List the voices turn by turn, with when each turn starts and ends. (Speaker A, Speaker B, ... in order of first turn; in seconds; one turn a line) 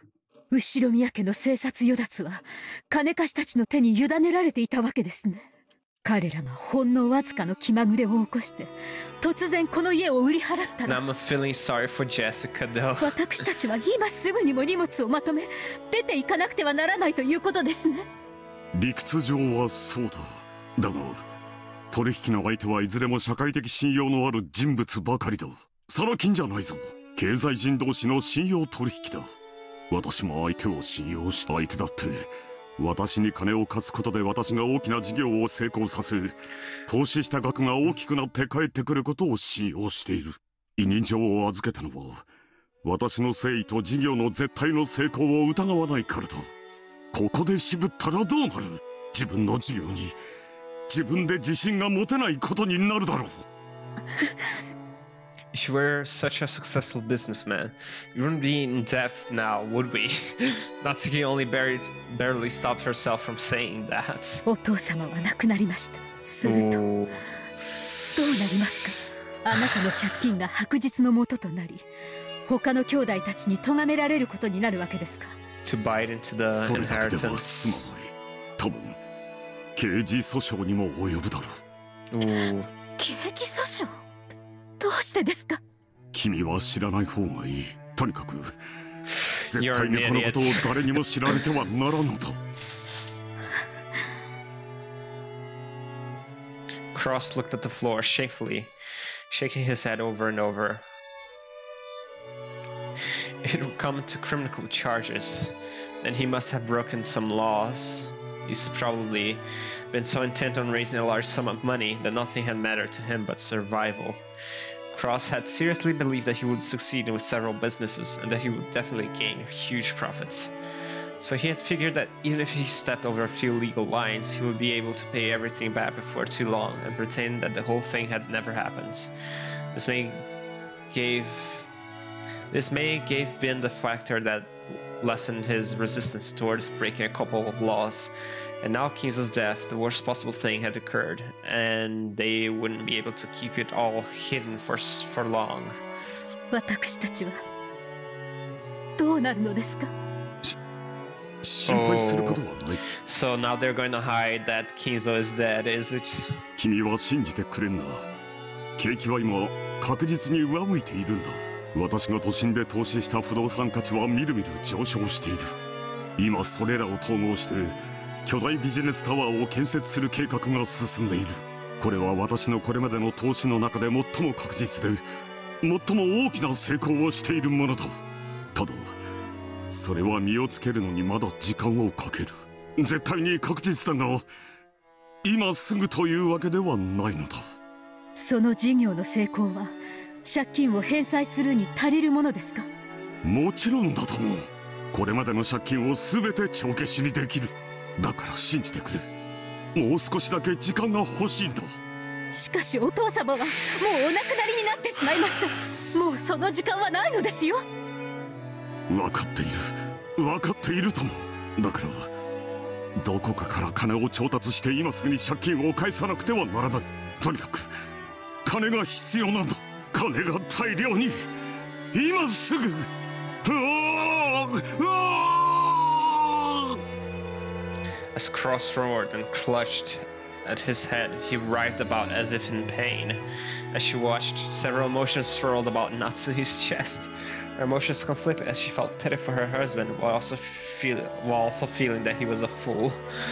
Speaker A: 0.5-5.5
Speaker A: 6.0-11.0
Speaker B: 10.8-13.2
Speaker A: 13.0-18.1
Speaker C: 18.7-21.2
Speaker C: 21.9-29.3
Speaker C: 29.9-42.2
Speaker C: 42.8-46.5
Speaker C: 47.1-50.2
Speaker C: 50.9-53.5
Speaker B: 55.5-64.4
Speaker A: 64.5-66.8
Speaker B: 66.4-67.2
Speaker A: 68.2-71.8
Speaker A: 72.5-75.4
Speaker B: 75.7-77.9
Speaker C: 76.5-79.0
Speaker C: 79.8-81.6
Speaker B: 82.1-82.7
Speaker A: 83.0-84.0
Speaker A: 84.8-85.6
Speaker C: 86.1-88.5
Speaker C: 89.5-92.4
Speaker B: 89.5-91.0
Speaker B: 96.9-98.7
Speaker B: 99.3-100.8
Speaker B: 103.4-114.2
Speaker B: 114.9-120.5
Speaker B: 121.2-129.1
Speaker B: 129.7-130.3
Speaker B: 130.9-131.7
Speaker B: 132.5-138.1
Speaker B: 138.6-145.8
Speaker A: 146.5-147.4
Speaker A: 149.0-149.9
Speaker C: 151.4-152.8
Speaker B: 151.7-152.4
Speaker B: 153.1-156.3
Speaker C: 156.6-158.1
Speaker C: 158.8-165.6
Speaker C: 166.2-175.0
Speaker C: 175.6-177.9
Speaker C: 178.5-179.0
Speaker C: 179.7-184.2
Speaker C: 185.2-187.4
Speaker A: 188.2-192.7
Speaker C: 193.2-199.1
Speaker C: 199.8-201.7
Speaker A: 202.3-207.6
Speaker C: 208.9-212.1
Speaker C: 213.0-217.7
Speaker C: 218.4-221.3
Speaker C: 221.9-222.9
Speaker C: 223.4-226.8
Speaker B: 228.2-233.2
Speaker B: 233.7-243.0